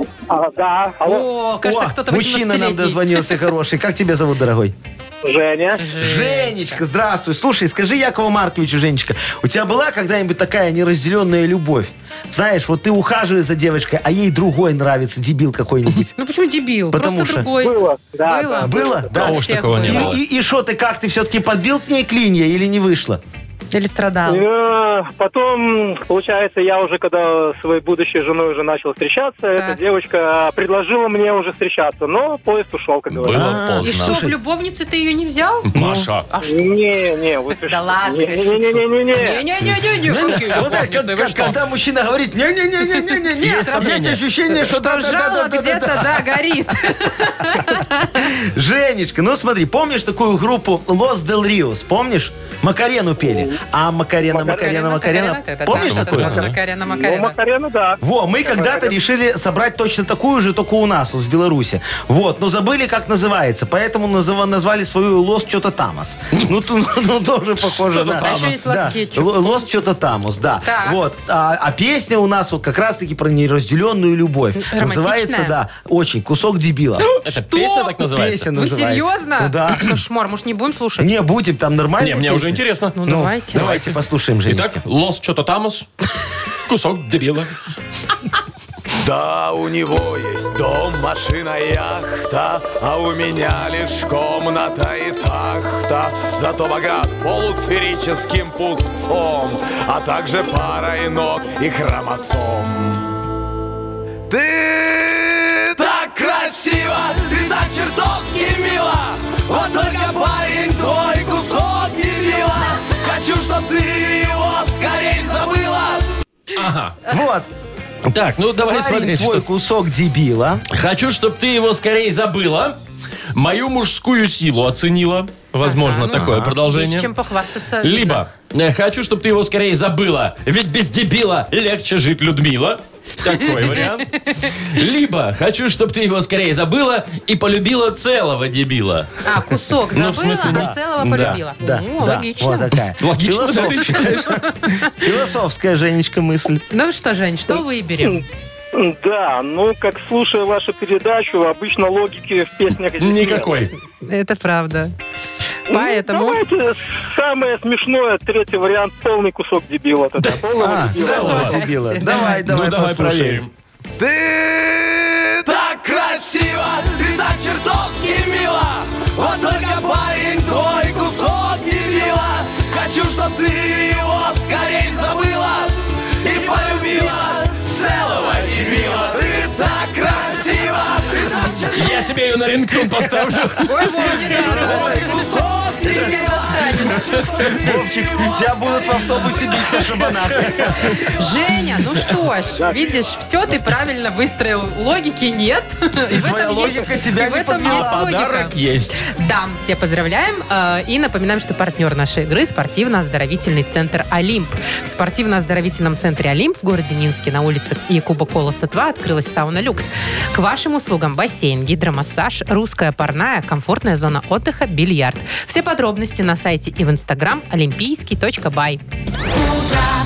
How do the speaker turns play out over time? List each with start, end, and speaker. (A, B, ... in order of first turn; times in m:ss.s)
0:00.3-0:01.2 A
0:01.0-0:03.4 B
0:01.6-0:04.7 C
0:05.2-0:05.9 A
0:05.8-0:06.8 B
0:06.0-0:16.1 C
0:16.2-0:20.2 B
0:16.9-0:17.5 C
0:17.6-0:19.0 A
0:18.6-0:23.2 C
0:19.1-0:20.2 D
0:23.7-0:24.4 B
0:24.3-0:33.4 A
0:33.1-0:34.2 D
0:33.3-0:34.3 C
0:33.8-0:35.7 B
0:35.7-0:36.3 D
0:35.7-0:36.1 C
0:36.3-0:36.6 B
0:36.4-0:39.4 A
0:37.6-0:41.6 B
0:39.7-0:46.5 C
0:42.9-0:43.9 B
0:43.4-0:44.2 D
0:44.5-0:48.3 B
0:47.5-0:56.3 C
0:54.4-0:57.4 B
0:55.7-0:56.5 D
0:56.8-0:58.9 A
0:58.0-1:17.1 C
1:07.7-1:08.6 D
1:08.2-1:09.8 B
1:10.6-1:11.0 B
1:14.5-1:15.6 B
1:17.0-1:17.9 B
1:17.2-1:18.5 D
1:18.0-1:20.0 C
1:18.5-1:21.1 B
1:21.0-1:24.8 C
1:22.0-1:23.0 D
1:22.9-1:23.9 B
1:23.5-1:23.9 D
1:24.5-1:25.9 D
1:26.6-1:27.5 D
1:29.0-1:43.1 E
1:44.3-1:56.0 E
1:56.5-1:57.0 D
1:57.1-1:57.5 C
1:58.1-1:59.4 D
1:58.6-2:00.6 C
2:00.7-2:02.8 D
2:03.3-2:07.1 D
2:05.6-2:08.2 B
2:06.1-2:06.6 C
2:07.8-2:19.2 D
2:13.4-2:14.5 B
2:19.2-2:22.7 B
2:19.9-2:21.4 D
2:20.5-2:26.6 C
2:23.0-2:24.4 D
2:24.1-2:24.9 B
2:26.7-2:28.2 B
2:28.7-2:33.5 A
2:33.0-2:33.7 D
2:34.0-2:34.9 B
2:35.7-2:36.4 B
2:35.7-2:41.4 A
2:40.6-2:43.4 C
2:41.0-2:42.4 B
2:41.0-2:41.6 D
2:42.2-2:43.5 D
2:44.0-3:02.1 E
3:01.7-3:04.4 D
3:03.6-3:07.1 B
3:04.3-3:05.4 C
3:04.5-3:08.3 E
3:07.1-3:07.6 D
3:07.6-3:11.0 C
3:10.1-3:10.7 D
3:10.7-3:18.6 B
3:16.1-3:18.1 C
3:17.6-3:19.1 D
3:19.1-3:38.8 B